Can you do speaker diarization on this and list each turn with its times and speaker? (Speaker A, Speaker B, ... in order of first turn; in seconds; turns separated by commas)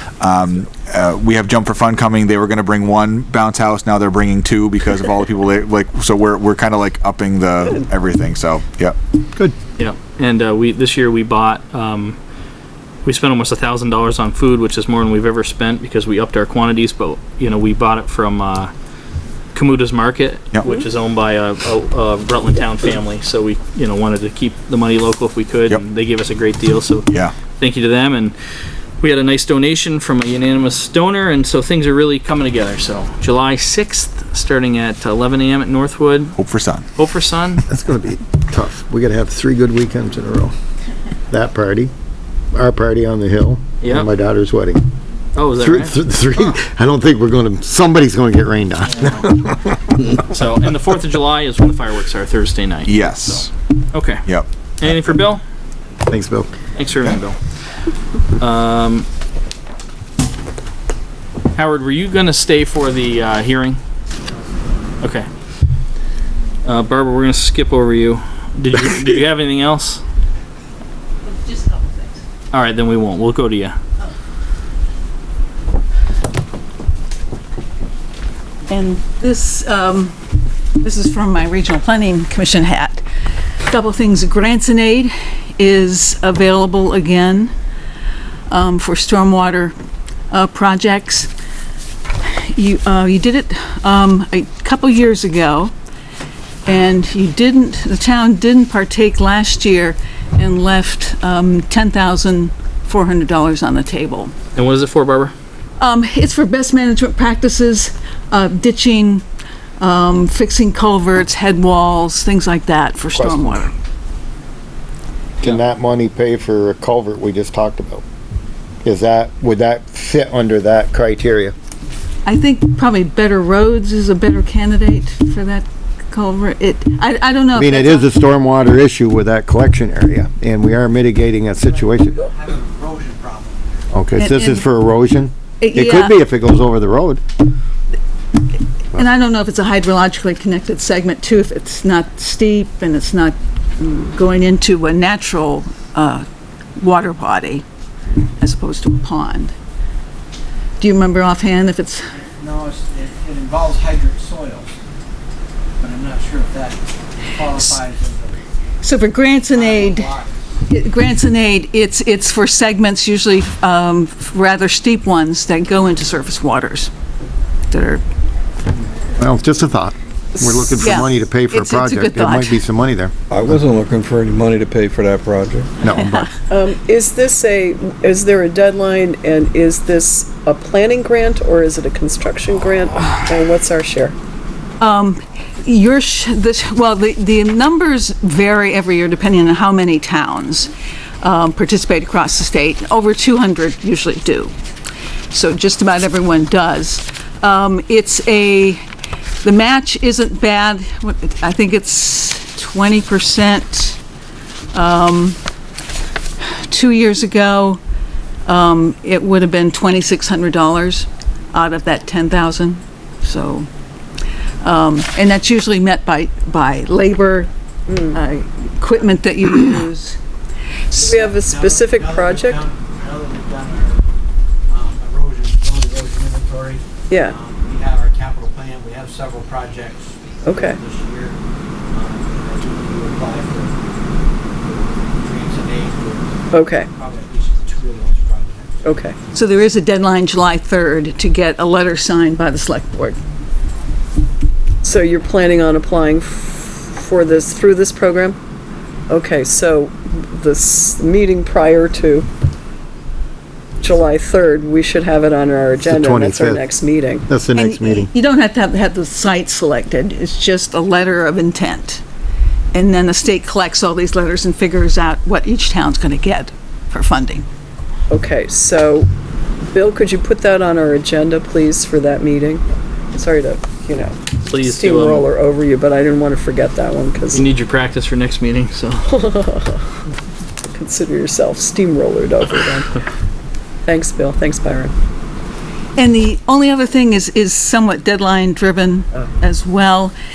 Speaker A: 0.2-8.9, Speaker B: 9.8-12.2, Speaker B: 13.0-18.7, Speaker B: 19.5-28.3, Speaker B: 29.0-36.3, Speaker A: 36.4-36.9, Speaker B: 37.0-37.6, Speaker C: 37.7-40.5, Speaker C: 41.3-41.9, Speaker C: 42.5-44.8, Speaker B: 43.8-44.1, Speaker B: 45.3-45.9, Speaker C: 45.6-49.4, Speaker B: 49.0-49.2, Speaker B: 50.1-54.2, Speaker A: 52.8-53.5, Speaker A: 54.3-54.9, Speaker B: 54.8-55.4, Speaker C: 56.1-56.5, Speaker B: 56.7-57.4, Speaker B: 58.4-59.1, Speaker B: 61.5-63.8, Speaker B: 65.0-65.3, Speaker B: 66.6-70.0, Speaker D: 71.3-72.1, Speaker B: 72.5-73.8, Speaker D: 78.7-80.1, Speaker D: 80.8-83.0, Speaker D: 83.7-87.5, Speaker D: 88.5-89.7, Speaker D: 90.3-91.3, Speaker D: 92.2-95.7, Speaker D: 96.7-104.3, Speaker B: 104.5-105.3, Speaker D: 105.8-109.2, Speaker D: 109.8-113.7, Speaker C: 113.1-113.6, Speaker C: 115.4-118.0, Speaker C: 118.8-121.5, Speaker D: 122.2-128.1, Speaker C: 127.5-132.2, Speaker E: 131.6-133.9, Speaker C: 133.9-137.2, Speaker D: 134.2-134.7, Speaker D: 135.6-136.1, Speaker D: 138.9-146.2, Speaker D: 146.8-147.6, Speaker D: 148.4-149.5, Speaker D: 150.8-152.1, Speaker E: 152.3-154.8, Speaker E: 155.8-158.4, Speaker D: 158.8-160.1, Speaker E: 159.5-160.4, Speaker D: 160.7-166.9, Speaker D: 167.7-168.0, Speaker C: 169.2-173.1, Speaker F: 170.3-171.0, Speaker D: 170.8-172.6, Speaker G: 173.3-175.7, Speaker C: 175.8-176.3, Speaker D: 176.0-176.3, Speaker F: 176.5-184.1, Speaker D: 184.8-194.5, Speaker D: 195.3-198.8, Speaker D: 199.4-204.0, Speaker D: 204.7-205.4, Speaker D: 206.5-207.8, Speaker D: 208.4-213.7, Speaker D: 214.6-217.5, Speaker F: 217.9-218.1, Speaker D: 218.1-220.2, Speaker D: 220.9-221.2, Speaker F: 221.0-222.7, Speaker E: 221.0-224.0, Speaker E: 224.7-231.4, Speaker F: 227.1-227.3, Speaker F: 230.4-230.8, Speaker E: 231.9-233.8, Speaker E: 234.4-239.1, Speaker F: 236.5-236.9, Speaker F: 238.8-239.2, Speaker D: 239.3-243.2, Speaker F: 244.8-248.4, Speaker F: 249.1-252.3, Speaker F: 253.8-257.3, Speaker C: 255.8-256.7, Speaker C: 257.3-258.1, Speaker D: 257.5-262.0, Speaker D: 262.7-267.5, Speaker F: 268.1-269.1, Speaker F: 269.6-277.5, Speaker B: 274.4-275.2, Speaker B: 277.3-279.0, Speaker F: 279.1-279.8, Speaker F: 280.7-283.0, Speaker F: 283.8-284.9, Speaker D: 285.9-290.1